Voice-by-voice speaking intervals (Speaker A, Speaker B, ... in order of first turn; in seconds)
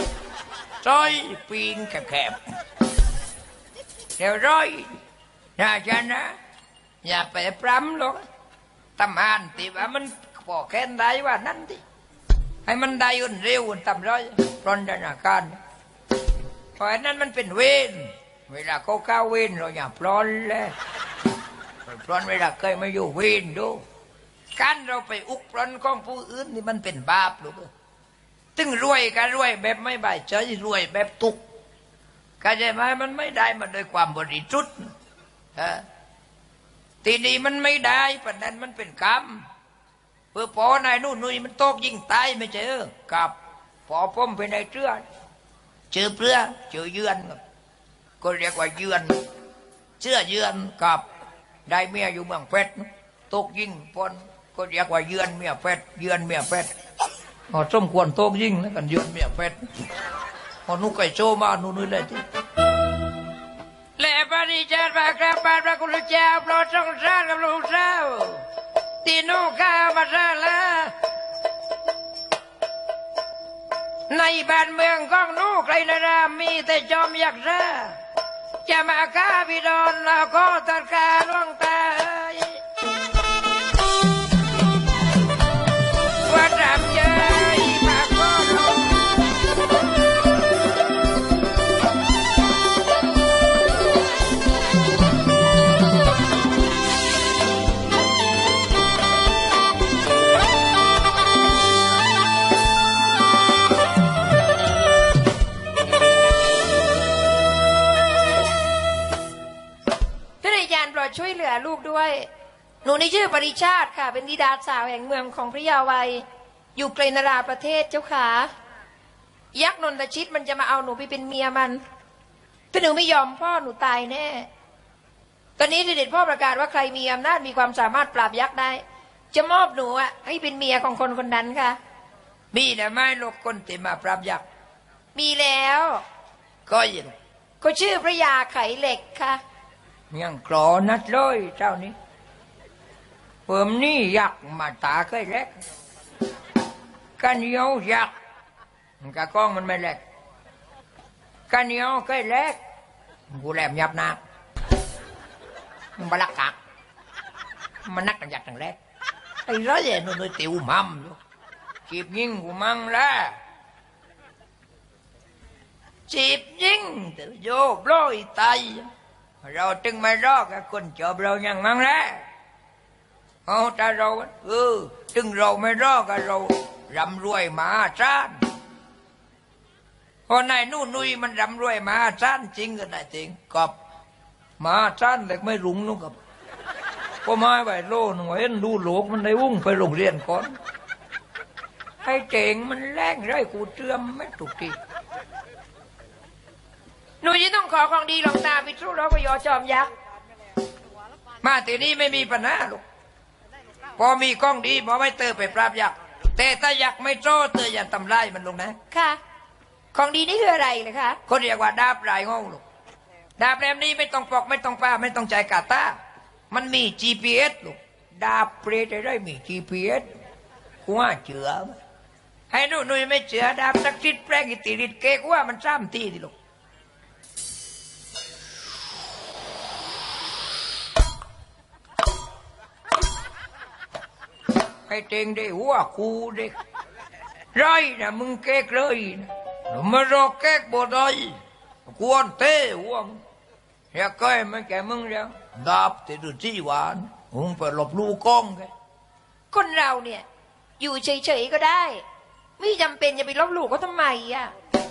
Speaker A: 0.8-2.4, 4.2-5.0, 5.6-6.4, 7.0-8.2, 9.0-11.8, 12.6-15.6, 16.8-20.7, 21.9-23.8, 24.6-27.7, 28.6-31.4, 32.4-34.9, 35.5-35.9, 37.0-39.5, 40.3-43.3, 43.9-45.0, 45.9-47.4, 48.2-49.2, 50.0-51.0, 51.7-56.7, 57.5-59.6, 60.6-62.2, 64.0-68.4, 69.0-70.9, 74.1-78.0, 78.6-82.6, 86.2-89.0, 132.5-134.4, 136.7-137.2, 140.1-141.9, 143.5-145.6, 147.2-148.1, 149.0-150.0, 151.5-152.6, 153.3-154.2, 156.0-156.6, 157.8-158.8, 159.4-161.2, 161.9-163.4, 166.1-168.9, 169.4-172.2, 173.4-178.4, 180.3-183.7, 184.6-186.2, 187.2-190.6, 192.0-194.8, 201.4-202.8, 204.0-208.8, 211.2-212.6, 213.4-216.0, 216.5-220.1, 220.8-221.8, 222.5-226.3, 234.9-236.5, 237.5-243.2, 243.9-248.7
Speaker B: 110.4-112.3, 112.8-118.5, 119.5-121.8, 122.7-124.5, 125.6-131.8, 135.1-136.0, 137.6-139.4, 197.2-199.9, 208.9-209.2, 209.9-211.2, 249.5-250.2, 250.8-252.0, 252.6-254.5